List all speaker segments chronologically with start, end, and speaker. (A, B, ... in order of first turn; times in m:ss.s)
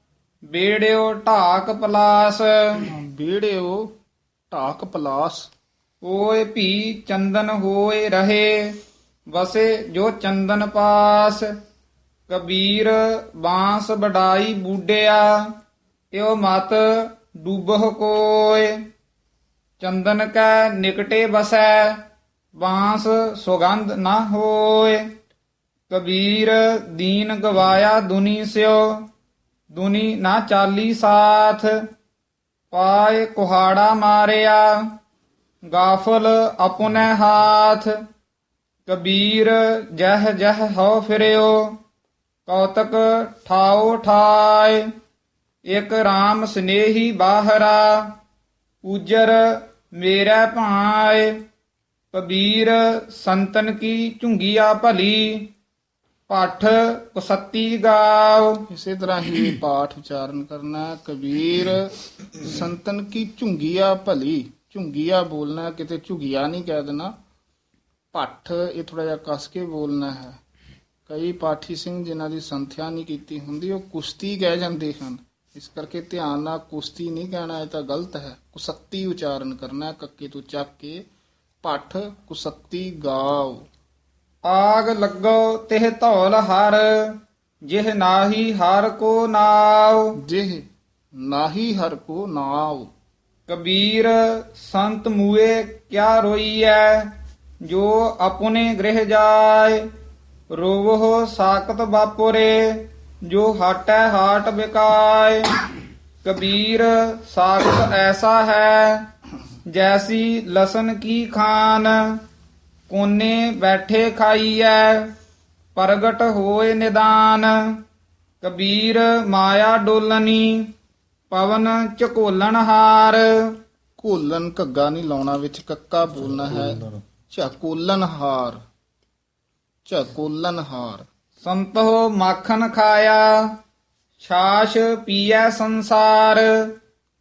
0:00.5-0:02.8 A
0:02.9-0:03.9 B
0:04.5-0:05.5 B
0:06.0-0:08.7 A
0:09.3-0:11.5 A
0:12.3-0:15.4 A
0:16.1-0:18.8 A
0:19.8-0:22.0 A
0:22.6-0:25.0 A
0:25.9-0:29.0 A
0:29.7-0:31.7 A
0:32.7-0:34.8 A
0:35.7-0:37.9 A
0:38.9-0:41.7 A
0:42.5-0:44.8 A
0:45.7-0:48.1 A
0:48.8-0:51.3 A
0:52.1-0:55.5 A
0:56.3-0:58.6 A
0:58.7-1:07.1 B
1:08.1-1:10.4 B
1:11.1-1:21.0 B
1:21.6-1:23.7 B
1:24.4-1:30.1 A
1:30.2-1:30.6 B
1:31.2-1:32.9 B
1:33.5-1:37.1 A
1:37.6-1:39.8 A
1:40.5-1:45.6 A
1:46.2-1:49.0 A
1:49.7-1:52.2 A
1:52.9-1:55.1 A
1:55.8-1:57.5 A
1:58.4-2:00.6 A
2:01.3-2:03.3 A
2:04.0-2:08.6 B
2:09.8-2:11.0 B
2:11.4-2:13.4 A
2:14.2-2:16.7 A